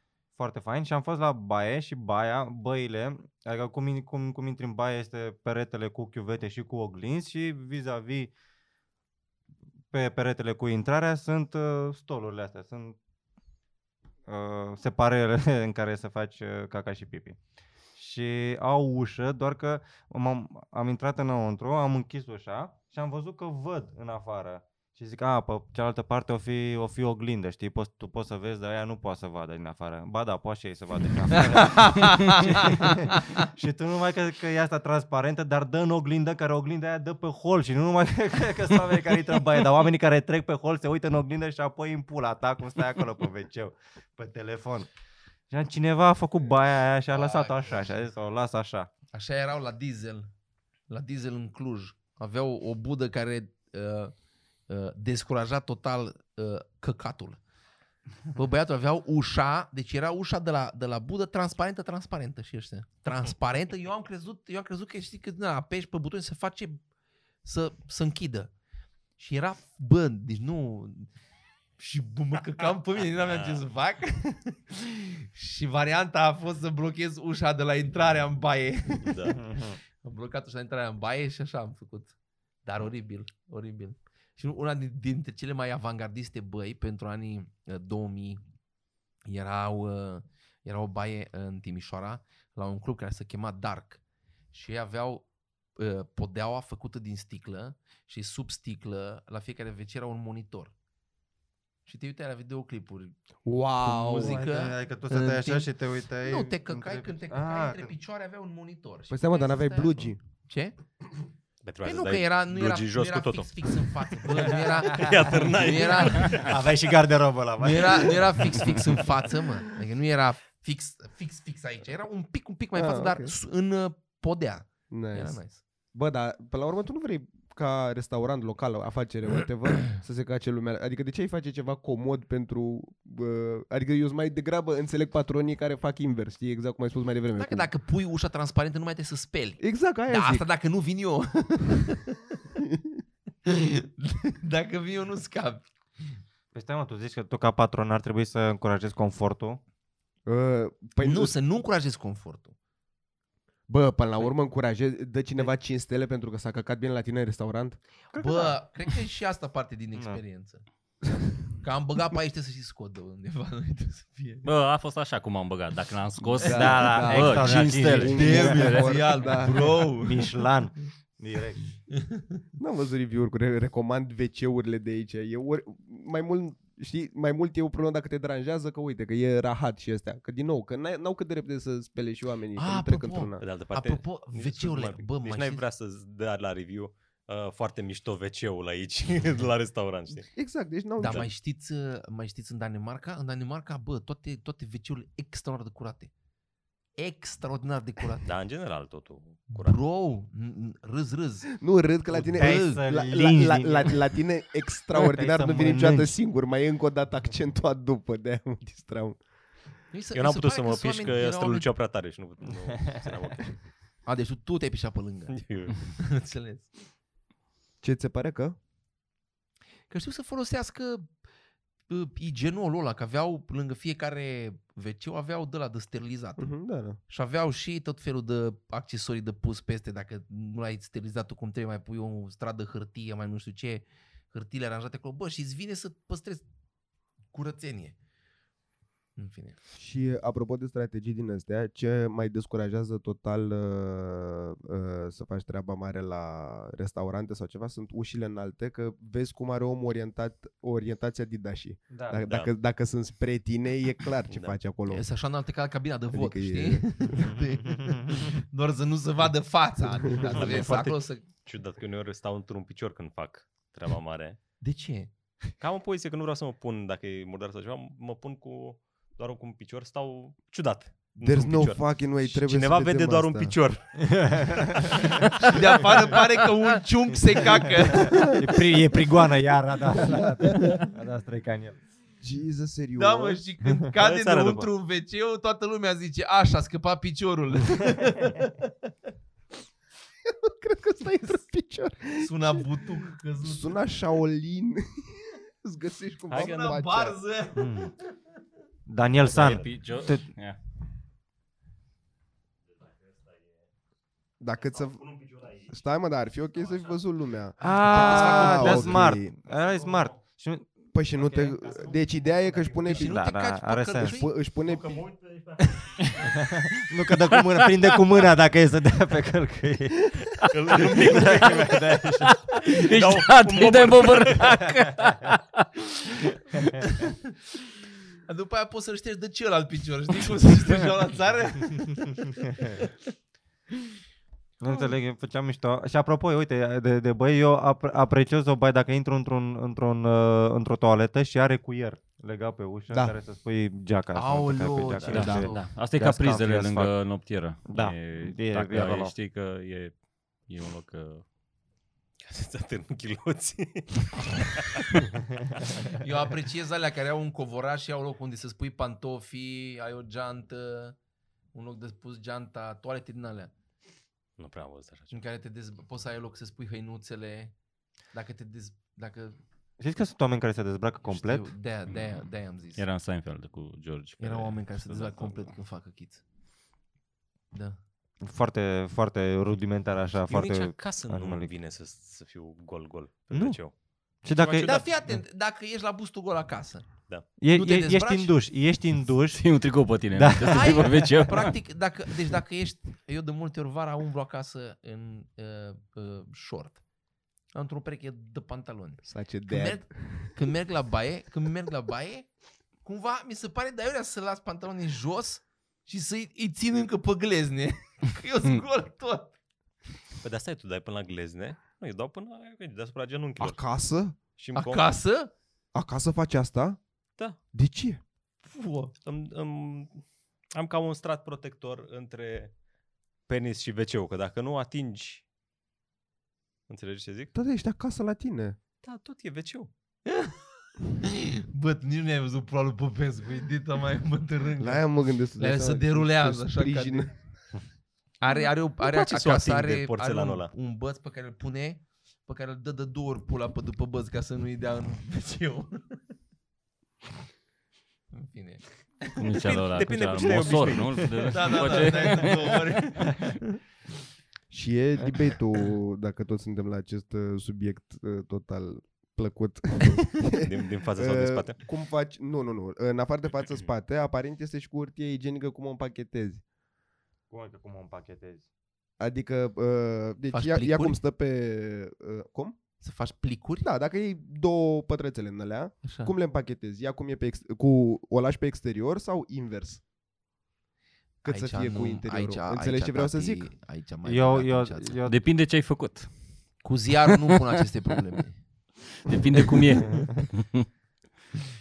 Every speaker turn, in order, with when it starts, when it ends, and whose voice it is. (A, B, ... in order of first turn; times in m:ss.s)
0:00.4-0:08.3 A
0:09.9-0:13.0 A
0:14.3-0:17.4 A
0:18.0-0:44.9 A
0:31.3-0:33.2 B
0:45.5-0:48.9 A
0:47.1-0:47.9 B
0:49.1-0:50.3 B
0:50.9-0:54.1 B
0:54.7-0:57.4 B
0:58.4-1:06.8 B
1:07.4-1:08.5 B
1:09.2-1:11.1 B
1:11.8-1:28.4 B
1:13.2-1:13.6 C
1:19.0-1:19.4 C
1:19.4-1:19.8 A
1:29.3-1:34.0 B
1:34.5-1:35.3 B
1:35.8-1:40.7 B
1:41.9-1:43.2 B
1:43.4-1:44.4 D
1:43.8-1:50.8 B
1:44.1-1:47.9 A
1:49.1-1:50.2 D
1:51.6-1:56.7 C
1:51.8-1:56.5 B
1:56.4-1:58.5 A
1:57.6-2:05.6 B
2:02.8-2:03.4 D
2:04.9-2:05.4 D
2:05.9-2:17.7 D
2:17.4-2:22.4 B
2:19.6-2:20.5 D
2:22.6-2:23.0 D
2:23.5-2:26.2 B
2:26.5-2:29.6 A
2:30.3-2:31.3 D
2:31.0-2:32.6 B
2:33.7-2:37.8 D
2:38.1-2:38.6 A
2:38.2-2:40.6 B
2:41.5-2:44.5 B
2:44.4-2:49.5 E
2:46.4-2:49.7 D
2:46.4-2:48.6 A
2:46.9-2:47.4 B
2:48.0-2:50.4 B
2:49.8-2:51.7 A
2:51.9-2:52.2 B
2:52.6-3:03.4 D
3:02.6-3:05.6 B
3:03.4-3:10.3 C
3:10.4-3:11.3 D
3:11.0-3:16.1 B
3:17.0-3:18.3 B
3:18.2-3:19.8 C
3:19.5-3:21.5 B
3:21.5-3:29.2 D
3:22.2-3:22.8 B
3:22.3-3:24.2 A
3:24.9-3:26.2 A
3:29.9-3:31.7 B
3:30.1-3:33.6 C
3:34.0-3:36.7 B
3:35.3-3:35.9 C
3:37.8-3:38.6 D
3:39.9-3:41.1 B
3:41.9-3:46.5 B
3:46.4-3:47.0 D
3:47.1-3:56.4 B
3:57.3-3:58.0 B
3:59.2-3:59.6 B
3:59.8-4:15.1 D
4:11.9-4:12.2 A
4:12.2-4:12.5 C
4:14.3-4:14.6 C
4:14.9-4:21.2 B
4:16.1-4:17.3 D
4:17.2-4:18.2 A
4:20.2-4:24.4 C
4:24.6-4:25.1 B
4:25.6-4:34.0 C
4:31.2-4:33.6 D
4:34.0-4:35.1 A
4:34.6-4:36.2 C
4:35.3-4:38.6 B
4:38.1-4:38.4 D
4:38.2-4:41.8 A
4:40.0-4:40.8 D
4:40.6-4:40.9 B
4:42.2-4:43.4 D
4:43.0-4:48.7 B
4:44.0-4:44.7 C
4:50.2-4:52.6 D
4:52.2-4:53.8 B
4:53.4-4:57.2 D
4:56.3-4:58.1 B
4:57.6-4:57.9 A
4:58.9-5:00.3 A
4:59.2-5:00.6 E
5:04.4-5:09.3 D
5:07.6-5:11.6 A
5:07.7-5:08.9 B
5:10.9-5:13.2 D
5:12.8-5:14.2 A
5:12.8-5:14.3 B
5:14.0-5:15.1 D
5:14.7-5:15.2 C
5:15.6-5:15.9 B
5:16.1-5:22.4 A
5:20.5-5:24.6 C
5:22.2-5:25.6 E
5:26.8-5:27.2 B
5:28.3-5:32.9 B
5:34.6-5:46.9 A
5:42.9-5:43.2 D
5:44.1-5:45.6 B
5:45.1-5:50.0 E
5:45.1-5:45.5 D
5:47.7-5:49.1 A
5:50.5-5:51.2 E
5:52.2-5:54.8 C
5:55.9-6:01.0 B
6:01.5-6:03.5 B
6:04.4-6:05.2 C
6:05.1-6:07.5 B
6:08.1-6:09.4 B
6:09.8-6:11.5 A
6:11.1-6:12.8 B
6:12.8-6:15.5 E
6:14.2-6:16.2 B
6:17.5-6:17.8 B
6:18.2-6:21.5 A
6:20.3-6:24.9 C
6:23.3-6:23.6 A
6:24.2-6:24.7 A
6:24.6-6:28.4 B
6:27.4-6:31.0 A
6:29.3-6:31.6 E
6:30.4-6:36.8 B
6:37.5-6:42.3 B
6:39.0-6:40.4 D
6:42.8-6:49.3 B
6:50.2-6:53.6 C
6:53.4-6:54.2 D
6:54.4-6:54.9 C
6:54.5-6:55.3 B
6:55.7-6:56.8 D
6:57.5-6:58.0 D
6:58.4-6:58.9 B
6:59.0-7:02.5 C
7:03.3-7:05.2 C
7:06.7-7:07.3 C
7:07.3-7:08.6 D
7:08.8-7:09.7 C
7:10.1-7:10.5 B
7:11.0-7:14.8 B
7:14.6-7:17.2 D
7:15.4-7:17.2 B
7:18.2-7:26.0 B
7:18.8-7:20.5 C
7:28.1-7:29.2 B
7:29.2-7:33.0 E
7:29.4-7:32.1 C
7:31.3-7:33.6 B
7:34.5-7:46.4 D
7:40.4-7:41.6 C
7:47.3-7:48.5 A
7:49.0-7:52.6 D
7:50.3-7:51.0 B
7:52.8-7:53.7 B
7:53.6-7:59.8 D
7:55.8-7:56.1 B
8:01.2-8:03.5 D
8:01.2-8:05.0 B
8:04.0-8:05.3 A
8:05.0-8:06.1 E
8:06.6-8:08.4 B
8:07.1-8:07.4 E
8:09.0-8:10.7 E